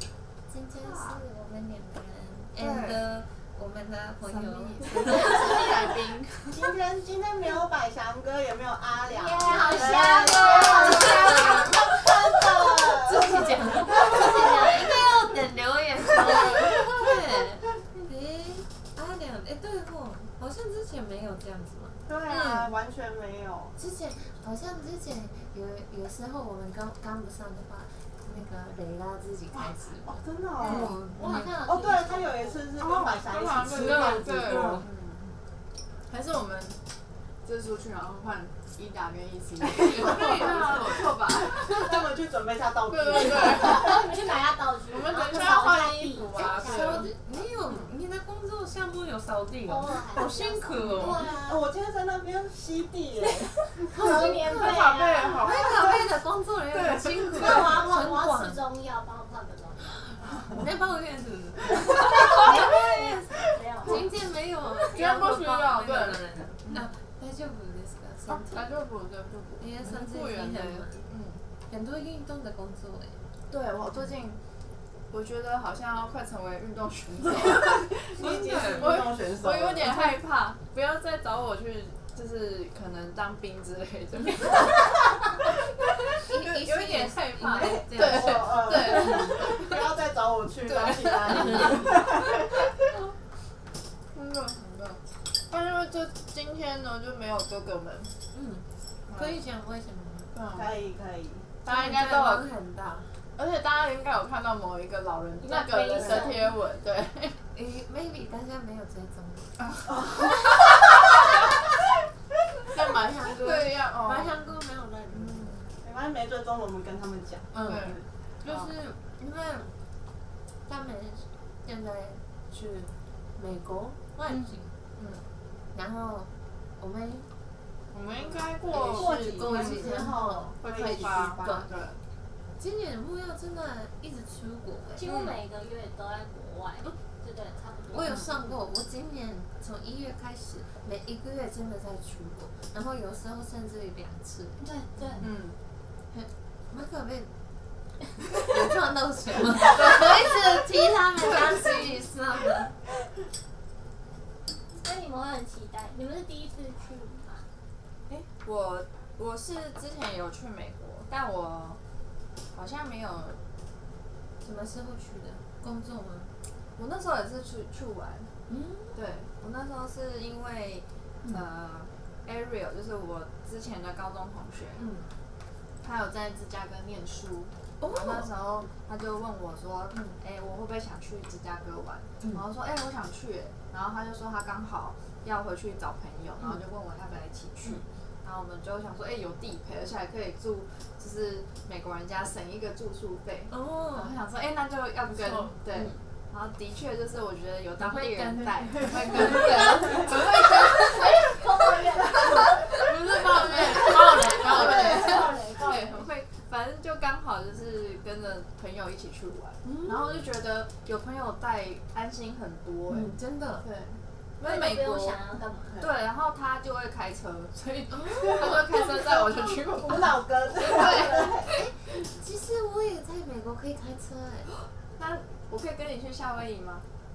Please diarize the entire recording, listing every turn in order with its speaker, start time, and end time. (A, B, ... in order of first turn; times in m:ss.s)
0:00.5-0:05.7 A
0:00.8-0:01.2 B
0:02.6-0:03.0 B
0:04.3-0:06.7 B
0:06.5-0:14.7 C
0:09.1-0:12.0 D
0:09.5-0:11.9 A
0:09.7-0:11.4 B
0:13.0-0:22.0 A
0:13.9-0:14.7 D
0:16.3-0:16.9 C
0:22.1-0:23.8 C
0:22.3-0:22.7 B
0:23.8-0:31.5 A
0:29.5-0:34.8 C
0:30.6-0:31.1 B
0:31.2-0:32.7 D
0:32.8-0:35.2 B
0:33.7-0:34.9 A
0:36.1-0:36.8 B
0:37.4-0:41.9 B
0:39.8-0:44.1 C
0:39.8-0:41.1 A
0:42.9-0:44.1 B
0:43.4-0:47.1 D
0:44.9-0:47.1 B
0:46.4-0:51.3 A
0:49.7-0:51.6 D
0:50.8-0:51.2 B
0:51.4-0:53.9 C
0:53.9-0:58.6 A
0:54.0-0:55.5 D
0:54.2-0:55.8 B
0:56.7-0:57.7 B
0:57.3-0:59.8 D
1:00.3-1:03.0 A
1:02.4-1:04.1 D
1:03.8-1:08.7 A
1:04.9-1:06.9 B
1:08.3-1:11.4 B
1:09.6-1:11.1 A
1:11.7-1:13.2 A
1:13.5-1:14.4 B
1:15.1-1:29.8 B
1:17.5-1:20.1 C
1:18.2-1:19.0 A
1:26.2-1:29.4 A
1:27.6-1:32.7 C
1:30.6-1:32.3 B
1:31.2-1:32.0 A
1:34.1-1:35.0 B
1:35.5-1:38.1 B
1:38.3-1:40.3 A
1:39.1-1:39.4 B
1:40.3-1:40.7 B
1:40.5-1:41.5 C
1:41.6-1:42.5 B
1:41.7-1:43.1 A
1:43.4-1:47.4 B
1:45.4-1:46.4 D
1:47.5-1:49.7 A
1:49.6-1:50.9 B
1:49.9-1:50.3 C
1:52.7-1:55.6 A
1:52.8-1:54.4 B
1:55.1-1:55.6 B
1:55.8-1:58.0 C
1:57.5-1:59.7 A
1:57.6-1:58.7 B
2:00.7-2:04.7 A
2:04.3-2:05.2 B
2:05.7-2:07.3 A
2:07.9-2:12.0 B
2:08.2-2:11.6 C
2:08.8-2:11.7 A
2:12.6-2:15.1 A
2:15.0-2:18.3 D
2:15.0-2:15.4 B
2:17.9-2:24.6 A
2:24.6-2:25.3 D
2:25.2-2:25.6 B
2:26.1-2:27.3 A
2:28.4-2:32.8 A
2:29.8-2:30.1 B
2:34.8-2:37.4 D
2:38.4-2:41.8 B
2:42.5-2:43.4 B
2:44.4-2:46.3 A
2:46.8-2:48.3 B
2:48.5-2:49.0 A
2:49.0-2:54.8 B
2:54.8-2:55.1 A
2:55.8-3:21.4 B
2:57.8-2:58.3 A
3:13.5-3:14.1 A
3:15.1-3:15.9 A
3:17.8-3:20.1 A
3:19.3-3:20.1 D
3:20.7-3:22.6 D
3:22.2-3:35.2 B
3:22.7-3:25.3 A
3:24.2-3:26.0 D
3:24.5-3:25.5 C
3:29.6-3:30.2 A
3:32.9-3:33.7 A
3:34.4-3:35.8 D
3:35.8-3:41.5 B
3:37.9-3:38.6 A
3:38.2-3:38.6 C
3:39.8-3:41.5 C
3:40.7-3:41.2 D
3:40.8-3:44.5 A
3:45.0-3:46.8 B